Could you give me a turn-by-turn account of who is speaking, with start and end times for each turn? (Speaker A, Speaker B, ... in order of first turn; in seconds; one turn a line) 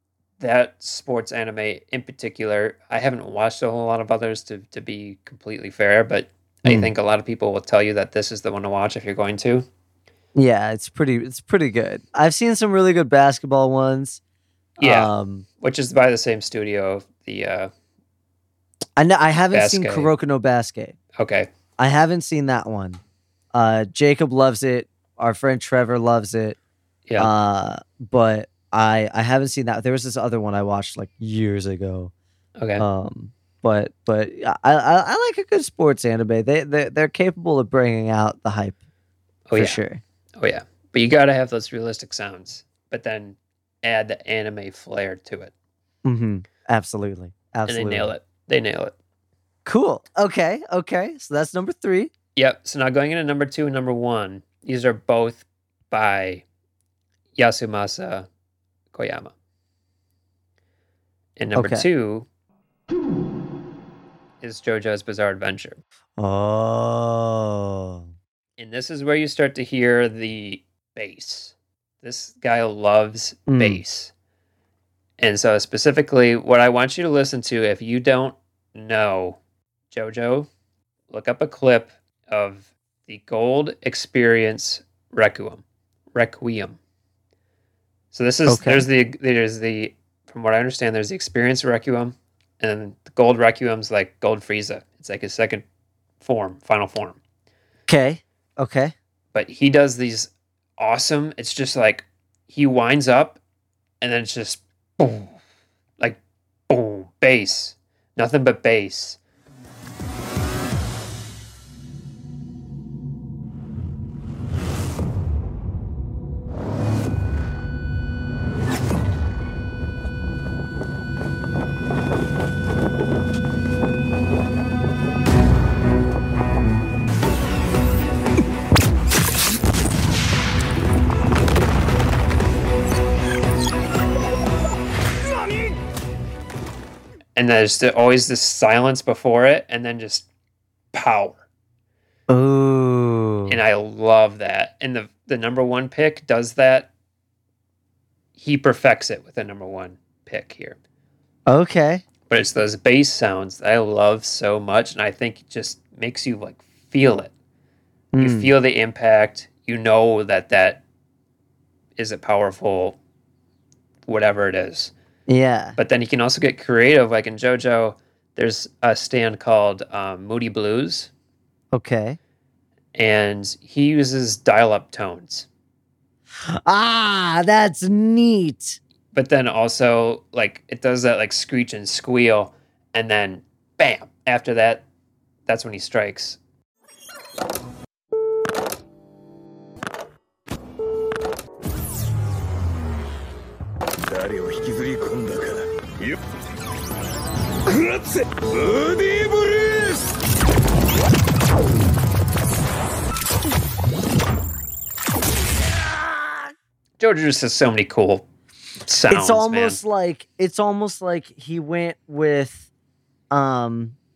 Speaker A: 0.4-9.7
Speaker B: 6.7-6.9
Speaker B: 10.3-14.2
Speaker B: 14.8-15.5
Speaker A: 14.8-17.7
Speaker B: 19.0-21.0
Speaker A: 19.5-20.1
Speaker A: 21.2-21.5
Speaker B: 21.8-23.0
Speaker B: 23.5-26.6
Speaker B: 27.2-32.1
Speaker A: 32.6-32.9
Speaker B: 32.8-38.8
Speaker A: 39.5-39.8
Speaker B: 39.5-40.0
Speaker A: 40.4-45.5
Speaker B: 46.0-48.1
Speaker A: 47.7-49.0
Speaker B: 49.6-52.1
Speaker A: 52.4-56.4
Speaker A: 57.4-58.3
Speaker A: 58.9-59.3
Speaker A: 61.4-62.3
Speaker B: 61.5-61.9
Speaker A: 64.4-65.8
Speaker B: 66.2-68.1
Speaker A: 68.6-74.1
Speaker B: 73.5-73.8
Speaker A: 75.2-79.4
Speaker A: 79.9-80.5
Speaker A: 81.1-86.8
Speaker A: 88.1-95.6
Speaker B: 88.5-88.9
Speaker A: 96.2-97.2
Speaker B: 97.9-98.9
Speaker A: 99.3-103.4
Speaker A: 104.0-105.3
Speaker A: 106.0-109.2
Speaker A: 137.4-140.3
Speaker A: 140.9-141.4
Speaker B: 142.3-143.6
Speaker A: 143.5-146.9
Speaker A: 148.4-150.8
Speaker B: 151.5-152.0
Speaker A: 152.3-157.3
Speaker B: 158.1-158.5
Speaker A: 158.2-160.8
Speaker A: 162.0-163.0
Speaker A: 164.1-164.9
Speaker B: 165.3-165.8
Speaker A: 165.8-171.1
Speaker B: 171.7-172.2
Speaker A: 172.9-175.5
Speaker B: 176.4-178.8
Speaker A: 179.1-184.8
Speaker A: 185.5-186.4
Speaker C: 194.1-195.7
Speaker C: 197.7-200.0
Speaker B: 206.1-206.4
Speaker A: 207.0-208.2
Speaker A: 208.9-209.8
Speaker B: 209.1-212.7
Speaker B: 213.3-214.0